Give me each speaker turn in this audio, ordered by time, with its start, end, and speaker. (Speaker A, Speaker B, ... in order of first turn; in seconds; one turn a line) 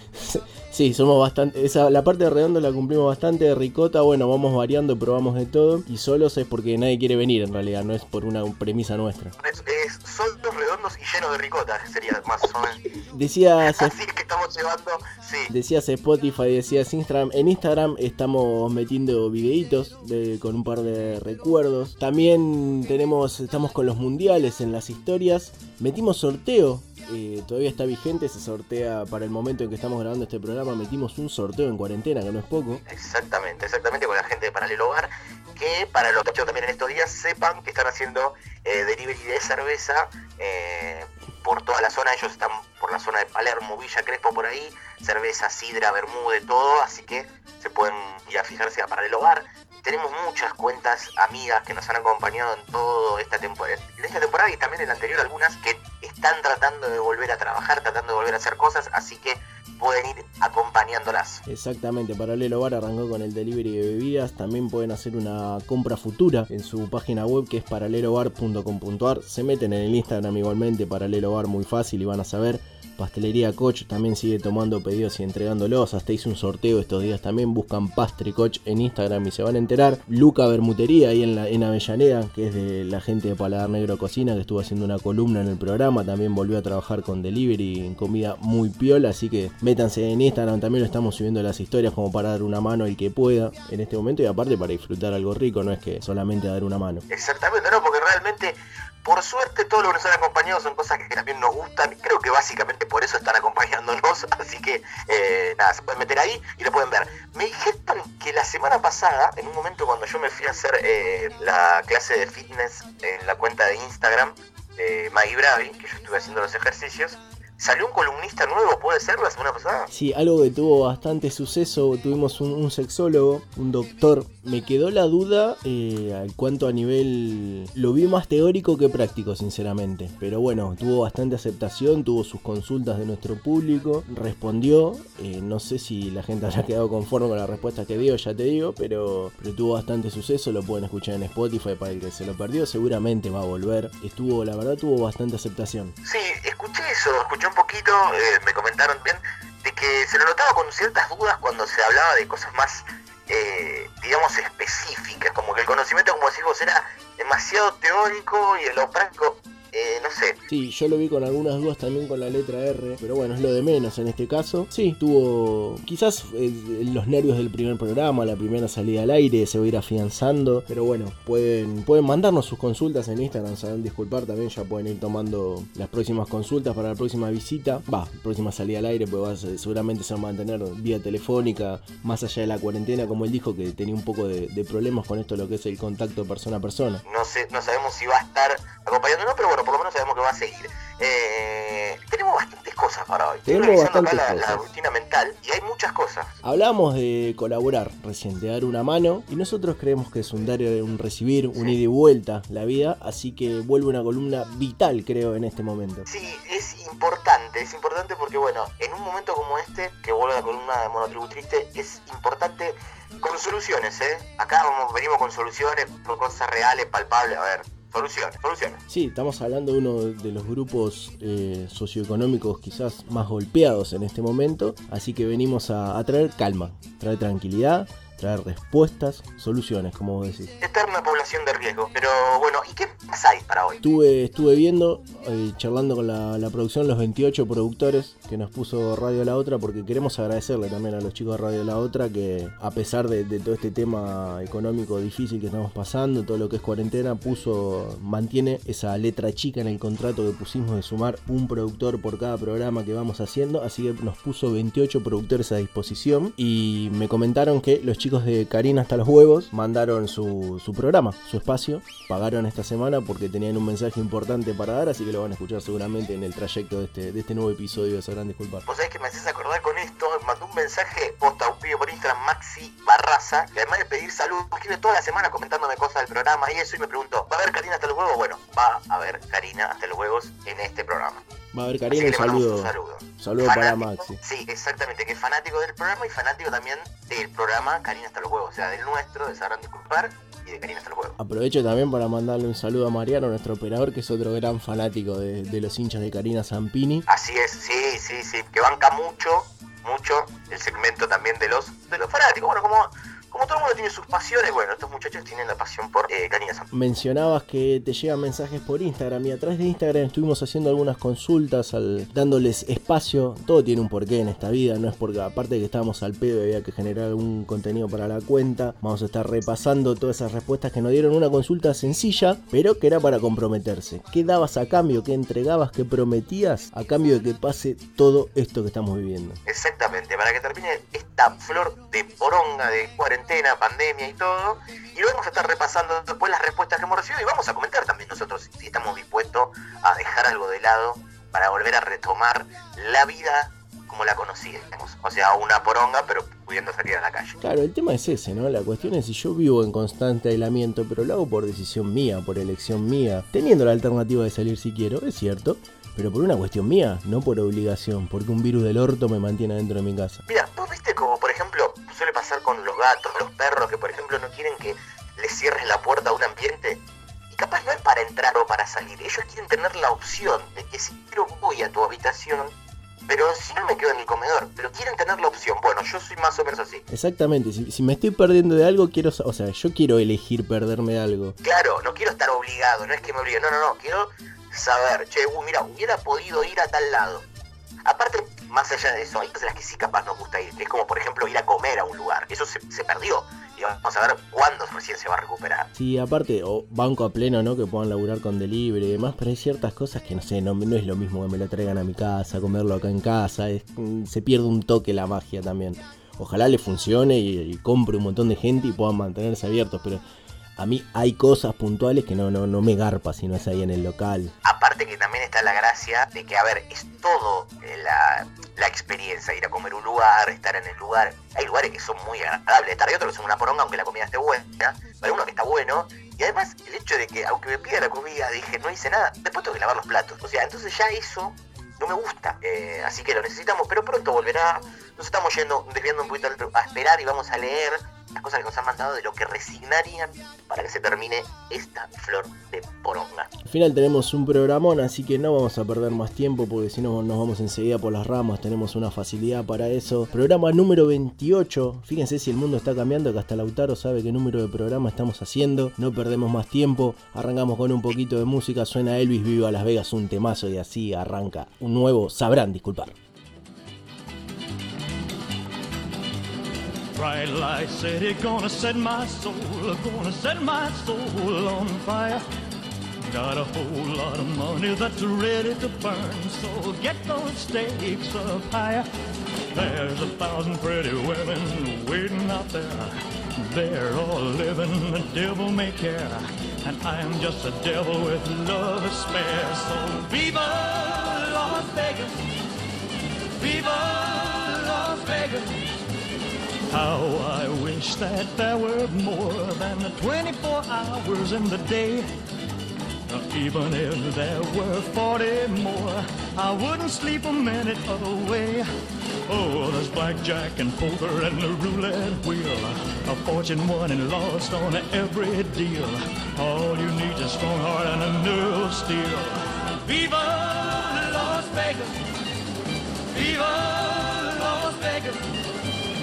Speaker A: 0.2-9.3
Speaker B: 9.4-12.9
Speaker A: 13.1-13.9
Speaker B: 13.6-15.5
Speaker A: 15.5-32.8
Speaker B: 32.9-61.4
Speaker A: 61.5-97.0
Speaker B: 97.1-119.9
Speaker A: 119.9-145.9
Speaker B: 146.0-160.4
Speaker A: 160.5-187.0
Speaker B: 187.0-196.4
Speaker A: 193.4-194.6
Speaker A: 196.4-206.0
Speaker B: 201.5-201.8
Speaker B: 206.1-218.8
Speaker A: 218.9-230.5
Speaker B: 230.6-233.8
Speaker A: 233.8-268.6
Speaker B: 268.7-281.2
Speaker A: 281.5-284.2
Speaker B: 281.9-291.1
Speaker A: 291.2-297.0
Speaker B: 297.1-306.7
Speaker A: 306.7-329.4
Speaker B: 329.4-347.4
Speaker A: 347.4-360.2
Speaker B: 360.3-372.5
Speaker B: 373.1-376.8
Speaker A: 376.9-381.4
Speaker B: 381.4-387.2
Speaker B: 387.8-395.7
Speaker A: 395.7-410.0
Speaker A: 410.6-414.3
Speaker B: 414.4-443.3
Speaker A: 443.4-462.9
Speaker C: 466.9-472.2
Speaker C: 473.0-478.9
Speaker C: 479.5-492.2
Speaker C: 493.4-495.8
Speaker C: 496.7-502.1
Speaker C: 503.1-508.7
Speaker C: 509.2-522.0
Speaker C: 523.1-525.2